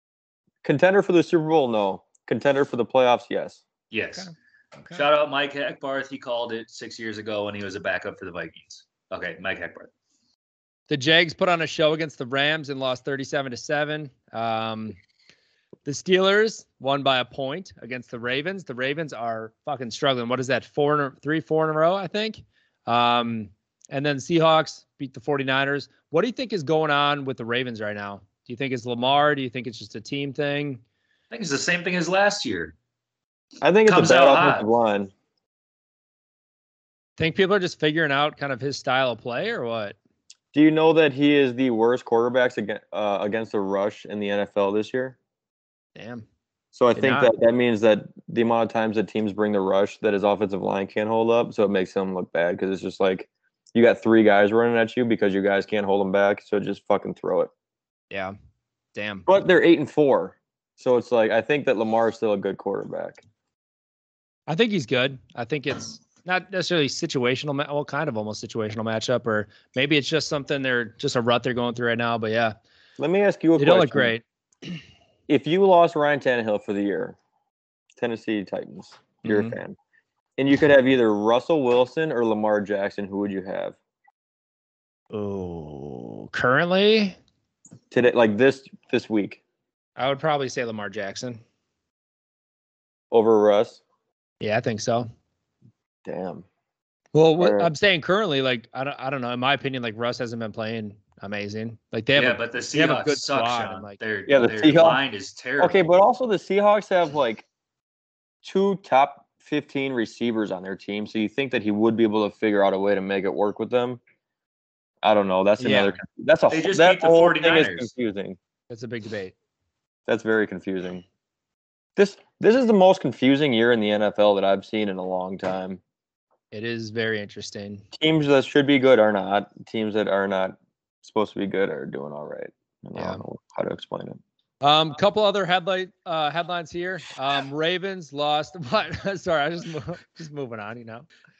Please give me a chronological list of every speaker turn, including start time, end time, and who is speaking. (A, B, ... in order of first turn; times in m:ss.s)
0:00.6-0:03.6 A
0:03.9-0:04.3 B
0:04.2-0:05.0 C
0:04.9-0:09.9 B
0:10.9-0:15.0 C
0:15.8-0:30.8 C
0:31.3-0:32.7 B
0:33.6-0:35.1 A
0:33.8-0:34.7 B
0:37.2-0:39.9 C
0:40.5-0:45.2 A
0:46.0-0:46.2 C
0:46.7-0:57.5 A
0:47.0-0:47.3 C
0:58.9-0:59.3 C
0:59.2-1:03.2 A
1:04.5-1:12.6 C
1:13.0-1:14.1 A
1:13.6-1:14.8 C
1:15.3-1:17.2 A
1:18.0-1:19.8 A
1:19.2-1:19.6 C
1:20.4-1:23.8 A
1:25.1-1:27.2 C
1:27.9-1:29.4 A
1:30.0-1:31.4 C
1:33.1-1:33.8 A
1:34.4-1:35.1 C
1:36.0-1:36.4 A
1:37.1-1:44.0 C
1:37.4-1:37.7 A
1:42.2-1:45.8 B
1:44.3-1:45.0 A
1:45.6-1:47.4 A
1:48.4-1:54.0 A
1:55.0-1:58.4 A
1:55.6-1:56.0 C
1:56.5-1:57.9 B
1:58.7-1:59.3 C
2:00.1-2:01.0 A
2:02.0-2:05.8 A
2:06.5-2:07.8 C
2:07.9-2:14.2 A
2:13.0-2:13.2 C
2:14.6-2:21.1 C